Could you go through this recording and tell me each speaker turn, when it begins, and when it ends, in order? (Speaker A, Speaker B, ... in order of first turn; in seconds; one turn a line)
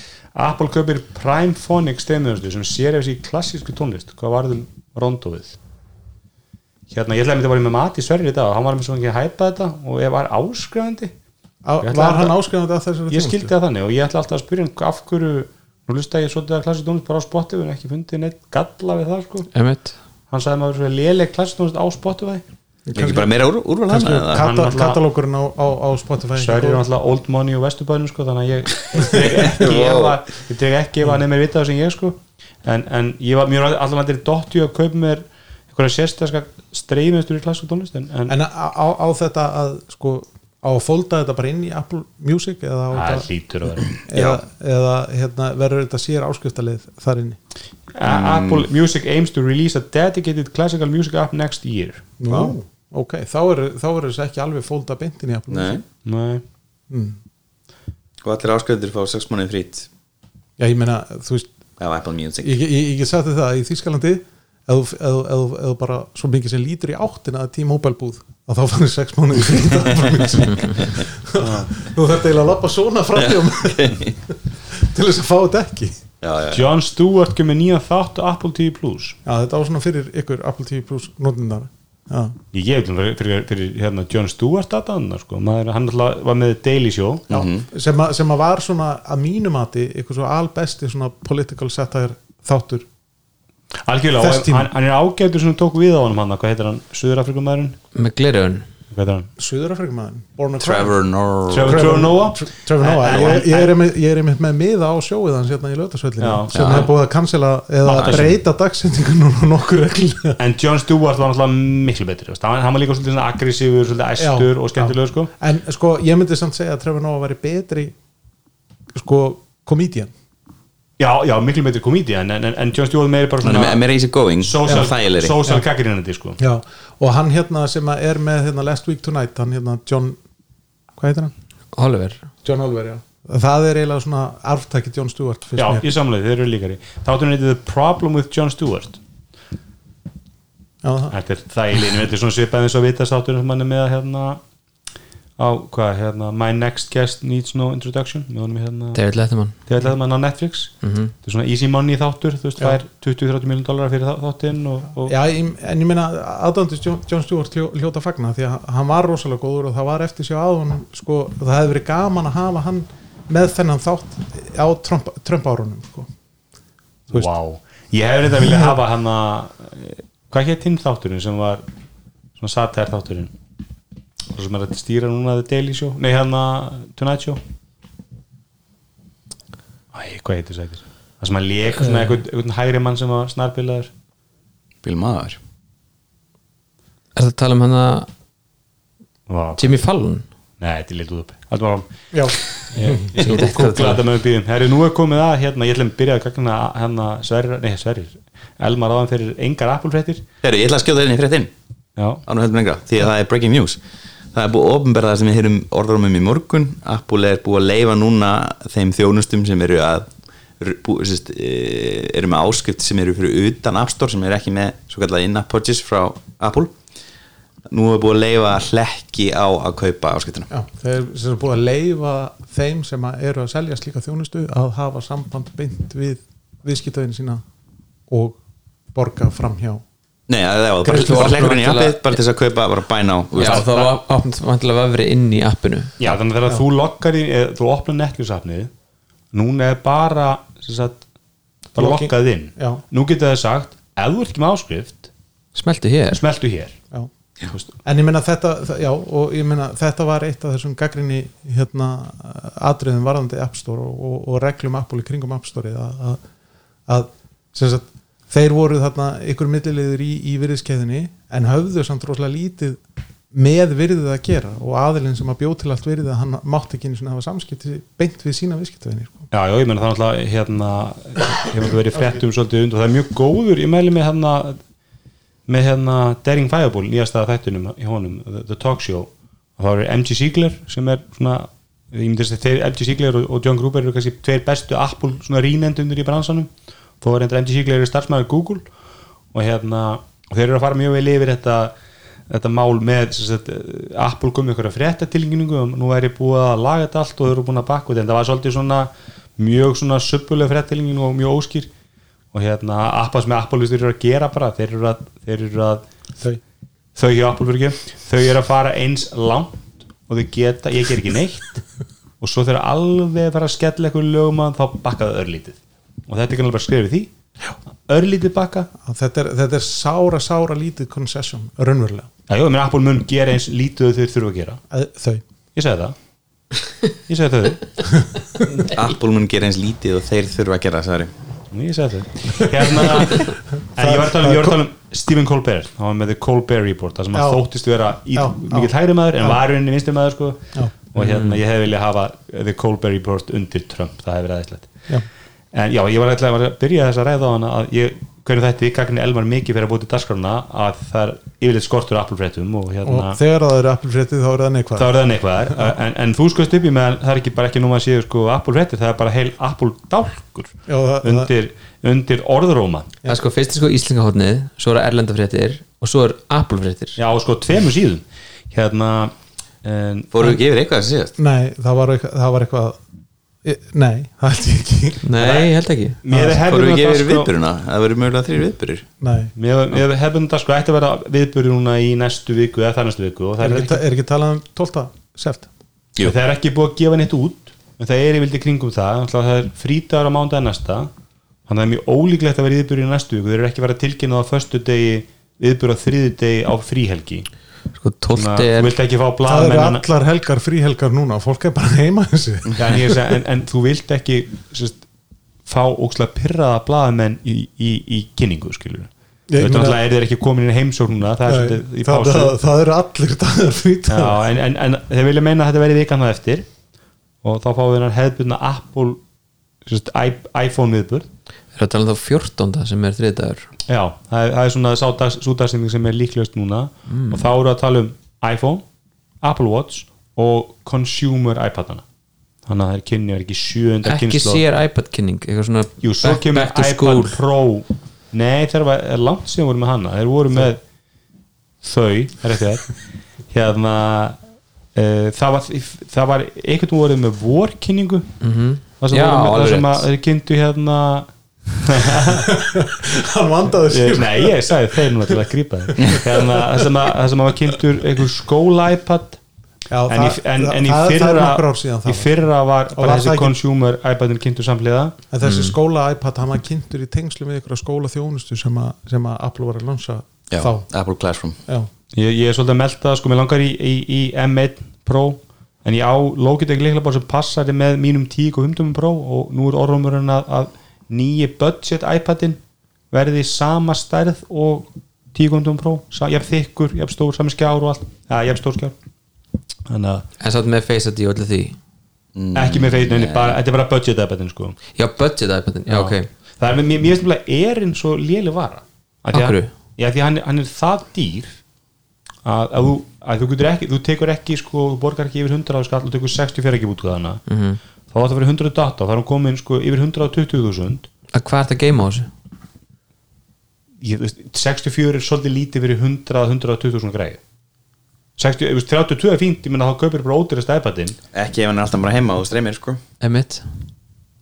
Speaker A: 0.3-5.5
Speaker A: 6.9-11.1
Speaker B: 11.6-13.5
Speaker A: 11.8-12.4
Speaker A: 13.1-19.5
Speaker C: 19.5-19.9
Speaker A: 20.3-22.4
Speaker B: 22.9-23.3
Speaker D: 22.9-24.5
Speaker B: 23.9-26.8
Speaker A: 24.3-25.0
Speaker A: 26.4-38.3
Speaker B: 29.0-29.5
Speaker D: 29.1-30.2
Speaker B: 38.3-43.3
Speaker A: 42.9-43.9
Speaker B: 44.0-47.4
Speaker D: 44.1-44.4
Speaker A: 47.9-52.5
Speaker D: 48.0-48.7
Speaker B: 52.2-55.8
Speaker D: 55.5-55.8
Speaker A: 56.0-56.4
Speaker B: 56.9-57.2
Speaker D: 58.2-59.9
Speaker B: 60.6-61.5
Speaker D: 61.8-62.6
Speaker B: 62.4-76.0
Speaker A: 71.4-71.7
Speaker D: 73.2-74.1
Speaker D: 76.2-76.7
Speaker A: 76.5-79.2
Speaker B: 79.2-82.3
Speaker A: 82.5-87.3
Speaker D: 87.3-87.7
Speaker B: 87.3-92.8
Speaker A: 93.8-97.8
Speaker B: 94.2-94.7
Speaker C: 97.9-98.7
Speaker A: 98.9-99.3
Speaker B: 99.4-101.0
Speaker D: 100.6-102.1
Speaker A: 101.5-103.8
Speaker B: 101.6-110.4
Speaker A: 106.2-106.9
Speaker A: 107.8-108.4
Speaker A: 110.4-115.3
Speaker B: 114.2-117.9
Speaker B: 118.9-120.1
Speaker A: 121.0-123.8
Speaker D: 123.4-125.4
Speaker A: 124.4-126.4
Speaker B: 124.6-124.9
Speaker B: 126.4-130.2
Speaker B: 131.0-131.3
Speaker C: 131.7-132.3
Speaker B: 132.4-135.9
Speaker A: 135.6-139.0
Speaker B: 140.8-141.1
Speaker A: 141.1-144.4
Speaker A: 145.4-149.0
Speaker C: 148.9-149.6
Speaker A: 149.7-150.7
Speaker C: 150.8-151.1
Speaker A: 151.2-155.1
Speaker B: 155.1-166.1
Speaker A: 167.1-171.6
Speaker A: 172.4-173.3
Speaker A: 174.3-177.4
Speaker A: 179.9-183.9
Speaker D: 184.8-185.4
Speaker C: 187.2-188.1
Speaker A: 189.3-189.8
Speaker C: 189.6-190.2
Speaker A: 190.6-200.2
Speaker B: 192.1-193.1
Speaker C: 193.1-194.0
Speaker D: 200.4-201.5
Speaker A: 202.0-202.2
Speaker D: 202.2-203.8
Speaker D: 204.3-210.1
Speaker D: 210.6-216.8
Speaker D: 217.7-220.5
Speaker B: 220.5-227.4
Speaker B: 228.1-228.4
Speaker B: 228.9-229.8
Speaker D: 230.3-233.7
Speaker C: 230.8-232.2
Speaker B: 230.9-231.4
Speaker C: 233.3-235.9
Speaker A: 233.4-233.9
Speaker A: 236.0-238.7
Speaker A: 239.3-241.0
Speaker A: 241.7-245.1
Speaker B: 241.8-242.8
Speaker C: 245.5-246.2
Speaker A: 246.1-246.8
Speaker B: 247.8-256.2
Speaker B: 256.9-262.8
Speaker B: 263.3-269.2
Speaker A: 269.3-274.6
Speaker A: 275.5-286.5
Speaker A: 287.0-288.6
Speaker A: 289.3-291.7
Speaker A: 292.3-301.7
Speaker A: 302.3-305.8
Speaker A: 306.9-311.6
Speaker A: 312.2-317.1
Speaker A: 317.9-318.7
Speaker B: 318.8-322.1
Speaker A: 322.3-324.6
Speaker B: 324.7-325.2
Speaker A: 325.5-325.9
Speaker A: 327.1-327.7
Speaker D: 328.6-331.1
Speaker A: 331.5-344.7
Speaker B: 332.9-334.6
Speaker B: 337.1-337.4
Speaker B: 338.1-339.4
Speaker C: 341.0-341.4
Speaker A: 345.5-353.2
Speaker B: 352.8-354.9
Speaker A: 354.8-362.9
Speaker B: 355.4-355.7
Speaker B: 360.7-361.3
Speaker C: 363.0-367.0
Speaker A: 366.9-370.2
Speaker D: 370.1-371.1
Speaker B: 371.2-372.8
Speaker B: 373.4-375.1
Speaker C: 375.0-376.0
Speaker A: 375.2-375.5
Speaker A: 376.0-377.3
Speaker B: 376.1-376.4
Speaker D: 376.3-378.8
Speaker B: 379.0-379.3
Speaker A: 379.4-383.8
Speaker B: 383.4-385.5
Speaker A: 386.0-390.9
Speaker A: 391.5-397.2
Speaker C: 397.7-398.7
Speaker A: 398.1-399.8
Speaker B: 399.2-402.9
Speaker A: 402.6-404.8
Speaker A: 405.4-412.3
Speaker B: 409.3-409.8
Speaker B: 411.2-414.2
Speaker A: 413.9-416.5
Speaker A: 417.2-419.0
Speaker A: 419.6-421.1
Speaker C: 421.5-423.5
Speaker A: 423.7-428.6
Speaker C: 426.9-427.2
Speaker A: 429.2-431.8
Speaker A: 432.4-434.4
Speaker C: 433.8-437.2
Speaker A: 435.8-440.6
Speaker A: 441.6-442.8
Speaker A: 443.3-444.2
Speaker A: 444.7-448.1
Speaker C: 448.2-449.8
Speaker A: 448.8-452.3
Speaker B: 452.0-456.7
Speaker A: 453.6-459.2
Speaker B: 459.7-462.1
Speaker A: 459.9-464.9
Speaker B: 462.8-463.4
Speaker B: 465.1-470.6
Speaker C: 465.2-465.5
Speaker D: 470.3-471.4
Speaker A: 471.9-482.4
Speaker A: 482.9-488.7
Speaker A: 489.7-490.0
Speaker C: 490.2-491.6
Speaker D: 492.1-493.4
Speaker A: 492.3-494.6
Speaker C: 494.7-496.1
Speaker A: 495.7-501.4
Speaker C: 499.1-499.5
Speaker A: 502.2-507.2
Speaker C: 507.3-507.6
Speaker A: 507.9-510.9
Speaker C: 511.1-512.1
Speaker A: 513.8-517.2
Speaker A: 518.2-521.0
Speaker D: 521.1-522.8
Speaker C: 523.0-523.5